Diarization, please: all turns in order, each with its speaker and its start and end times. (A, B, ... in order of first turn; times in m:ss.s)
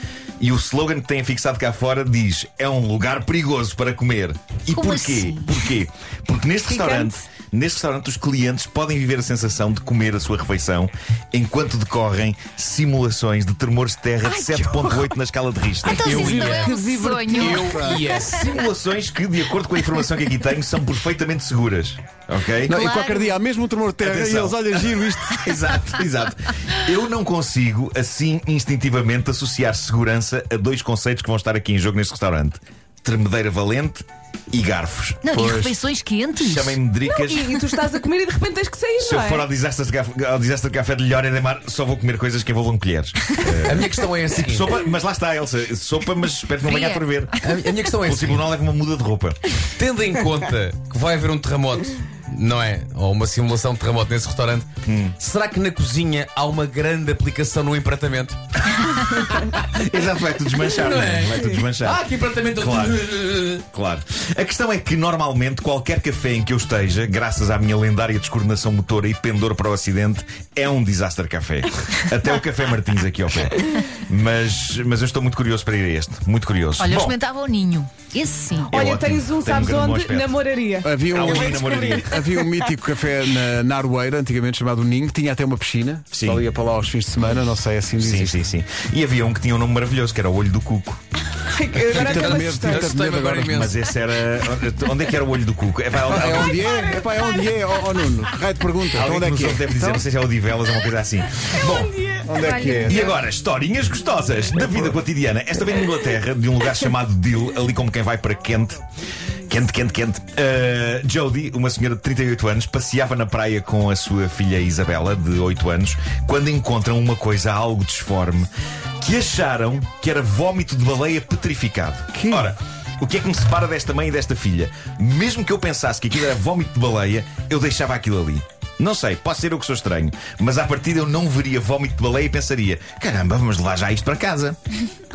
0:00.4-0:16.2 A
0:04.7-0:05.8 B
0:14.4-0:14.8 C
0:15.8-0:17.7 B
0:16.0-0:18.4 D
0:16.0-0:18.0 C
0:17.9-0:22.7 A
0:22.6-0:25.5 C
0:22.7-0:23.4 B
0:24.0-0:35.3 A
0:35.2-0:36.8 B
0:35.3-0:35.8 C
0:36.4-0:37.5 A
0:37.1-0:39.5 E
0:39.0-0:47.4 A
0:43.4-0:44.7 D
0:46.6-0:47.1 B
0:47.4-0:48.4 D
0:48.0-0:49.5 A
0:49.8-0:59.6 D
0:54.8-0:55.2 A
0:59.4-1:03.0 A
1:00.6-1:03.6 D
1:03.6-1:17.2 A
1:16.8-1:18.7 B
1:18.6-1:22.6 E
1:18.7-1:20.4 A
1:20.8-1:28.4 C
1:21.1-1:22.1 A
1:26.1-1:26.4 A
1:28.0-1:31.0 A
1:31.3-1:32.9 E
1:31.8-1:33.8 D
1:31.9-1:33.7 C
1:33.5-1:36.6 A
1:36.1-1:40.0 C
1:36.2-1:37.4 E
1:38.9-1:42.0 A
1:41.4-1:43.1 E
1:42.2-1:43.1 C
1:42.4-1:43.0 B
1:42.8-1:48.8 A
1:49.5-2:14.6 A
2:02.1-2:02.5 C